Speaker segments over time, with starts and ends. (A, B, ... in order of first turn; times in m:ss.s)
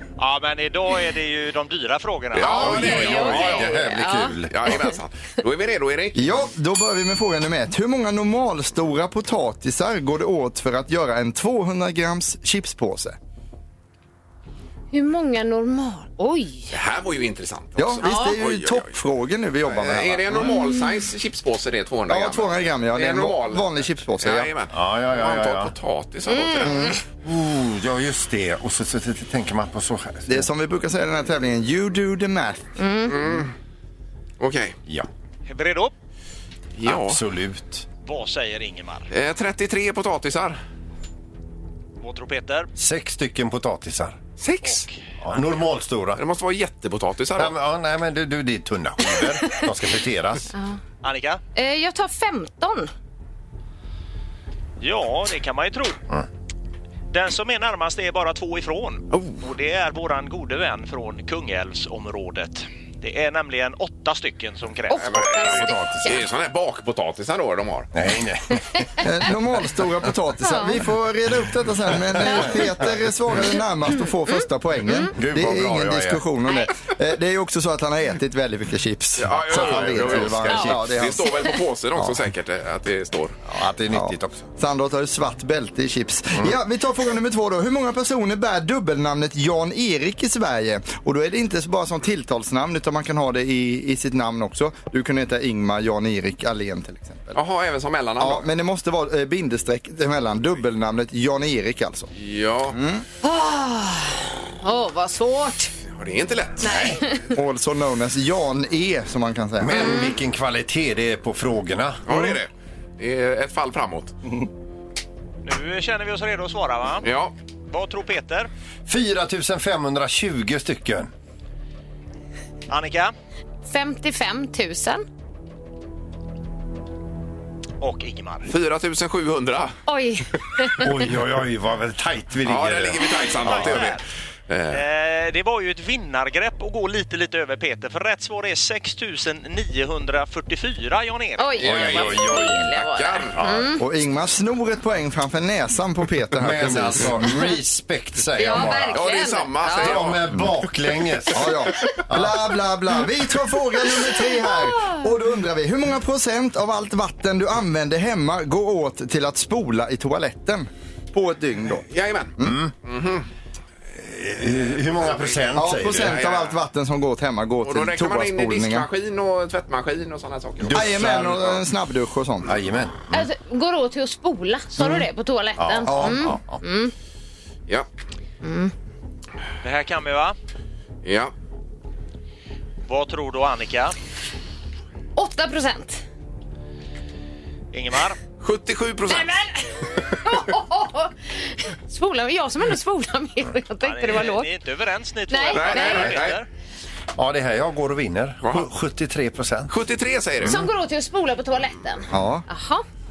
0:00.2-0:03.3 A
0:02.3-0:03.8 B
0:02.4-0:04.3 C
0:02.4-0:04.6 D
0:04.5-0:06.4 B
0:06.2-0:13.2 E
0:14.9-0:16.7 C
0:16.7-0:19.0 B
0:17.8-0:20.6 E
0:18.0-0:18.4 C
0:19.6-0:26.8 B
0:20.5-0:20.9 C
0:22.1-0:24.5 E
0:24.7-0:25.7 D
0:26.3-0:27.0 C
0:26.6-0:27.0 E
0:27.2-0:30.5 D
0:30.3-0:32.7 E
0:32.8-0:33.1 C
0:33.1-0:33.5 B
0:34.4-0:34.8 B
0:35.5-0:35.9 A
0:36.8-0:37.2 B
0:36.8-0:37.9 D
0:38.0-0:39.1 A
0:39.1-0:40.6 B
0:42.0-0:42.7 A
0:42.8-0:44.2 D
0:44.4-0:44.9 B
0:44.6-0:45.0 A
0:45.2-0:46.2 D
0:46.2-0:47.6 B
0:47.4-0:50.5 D
0:51.0-0:51.4 A
0:51.6-0:52.9 C
0:54.8-0:56.0 A
0:57.1-1:05.7 A
1:04.9-1:06.2 C
1:05.1-1:07.9 B
1:05.4-1:06.1 D
1:07.9-1:08.8 D
1:08.7-1:09.0 C
1:09.0-1:21.4 E
1:10.4-1:10.8 C
1:12.1-1:12.9 D
1:12.3-1:12.6 C
1:14.3-1:15.1 C
1:15.2-1:16.2 D
1:19.2-1:23.4 B
1:19.5-1:20.6 D
1:23.5-1:24.5 D
1:23.9-1:37.4 E
1:37.3-1:38.5 B
1:38.2-1:42.1 E
1:42.2-1:42.8 B
1:42.7-1:43.0 E
1:43.2-1:45.7 C
1:45.9-1:46.9 B
1:46.6-1:47.0 D
1:46.6-1:47.2 C
1:47.3-1:49.9 E
1:49.6-1:52.0 D
1:49.8-1:50.1 C
1:52.1-1:54.2 B
1:55.4-1:57.1 A
1:57.0-1:57.3 B
1:57.7-1:58.5 A
1:58.9-2:01.1 D
2:02.7-2:03.1 A
2:03.7-2:05.0 C
2:07.8-2:08.5 A
2:08.5-2:09.8 B
2:09.9-2:10.9 C
2:10.8-2:13.9 D
2:12.5-2:14.8 B
2:13.4-2:14.0 A
2:14.7-2:22.0 A
2:21.4-2:23.8 C
2:21.6-2:22.2 B
2:21.7-2:22.7 D
2:22.7-2:23.5 B
2:23.4-2:23.7 D
2:23.8-2:27.5 E
2:26.4-2:29.0 D
2:28.4-2:30.0 C
2:28.9-2:30.4 B
2:29.8-2:32.4 D
2:31.3-2:41.9 E
2:34.5-2:35.0 C
2:41.9-2:43.3 B
2:42.4-2:42.7 D
2:44.0-2:46.2 D
2:45.6-2:48.9 E
2:45.9-2:46.6 B
2:47.6-2:51.1 B
2:50.6-2:51.6 D
2:50.7-2:52.5 E
2:52.4-2:53.3 D
2:53.1-2:56.9 C
2:55.6-2:56.6 D
2:55.9-2:56.4 E
2:58.4-2:58.7 C
2:59.6-3:00.4 A
3:01.0-3:01.3 B
3:02.9-3:04.0 A
3:05.2-3:06.0 C
3:07.7-3:08.2 A
3:08.4-3:09.4 B
3:09.1-3:09.6 C
3:10.2-3:14.5 C
3:13.8-3:16.5 A
3:15.3-3:16.2 C
3:15.5-3:16.4 B
3:17.2-3:19.7 D
3:19.7-3:20.6 B
3:20.4-3:20.6 D
3:20.4-3:22.8 C
3:22.1-3:22.5 E